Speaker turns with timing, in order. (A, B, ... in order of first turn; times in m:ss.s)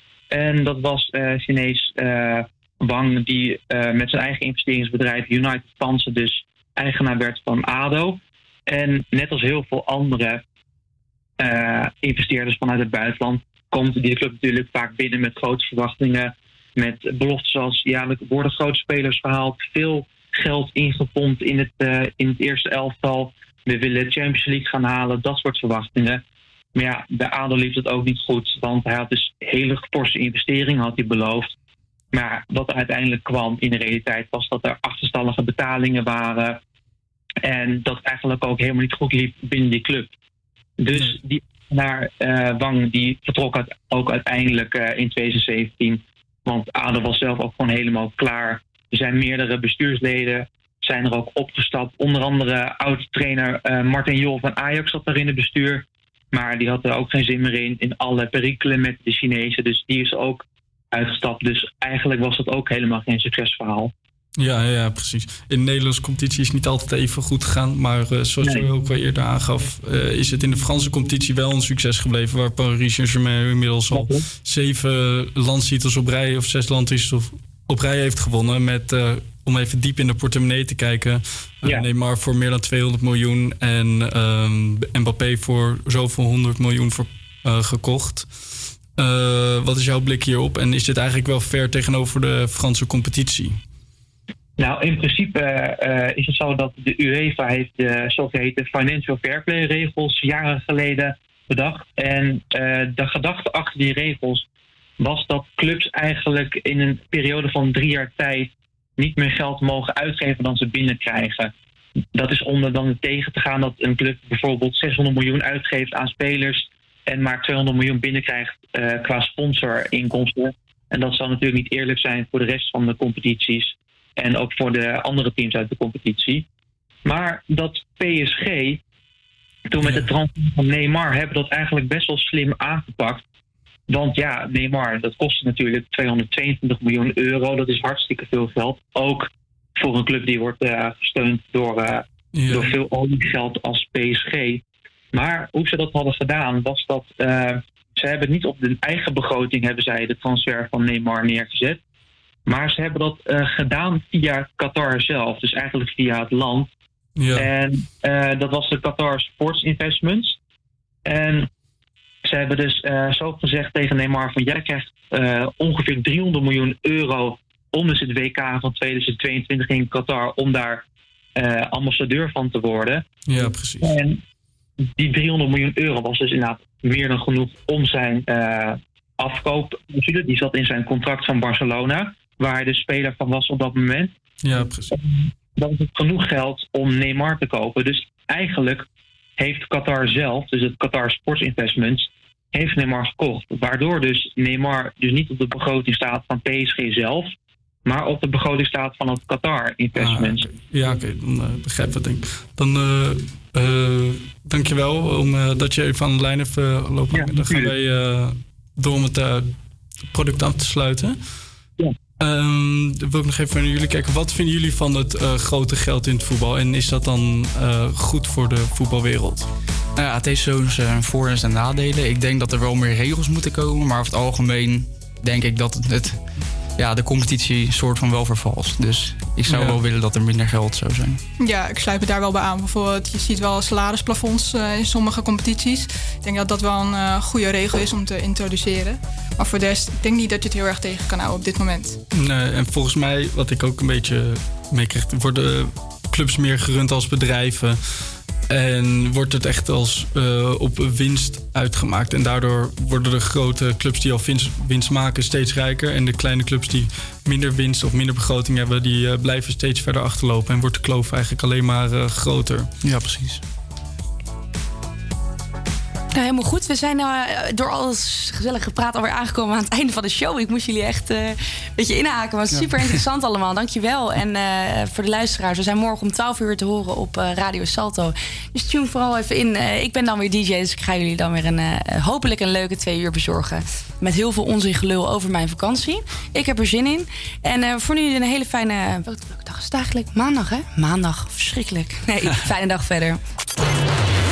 0:00.3-0:10.4 A
0:11.4-0:26.2 A
0:26.8-0:31.5 A
0:32.1-0:36.6 A
0:37.4-0:40.1 A
0:40.8-1:03.9 A
1:04.4-1:28.3 B
1:13.9-1:14.2 A
1:29.0-1:33.6 B
1:34.6-1:44.4 A
1:45.0-1:51.5 A
1:52.2-2:06.4 A
2:07.0-2:08.8 A
2:09.7-2:13.2 A
2:09.8-2:10.1 B
2:13.9-2:24.6 A
2:22.3-2:22.8 B
2:25.1-2:31.8 A
2:32.5-2:36.7 A
2:37.2-2:37.5 B
2:37.3-2:40.4 A
2:41.1-2:41.5 A
2:42.2-2:50.8 A
2:51.4-2:53.0 A
2:53.3-2:53.9 B
2:53.8-2:54.2 A
2:54.9-3:04.1 A
3:04.4-3:04.9 B
3:04.9-3:08.8 A
3:09.4-3:17.3 A
3:17.9-3:20.5 A
3:20.0-3:29.5 B
3:27.1-3:27.7 A
3:30.1-3:31.2 B
3:32.2-3:39.5 B
3:40.0-3:46.2 C
3:46.8-3:51.2 C
3:49.5-3:49.8 B
3:51.4-4:02.0 D
4:02.2-4:07.8 B
4:08.5-4:22.7 B
4:22.8-4:23.4 C
4:26.1-4:53.2 E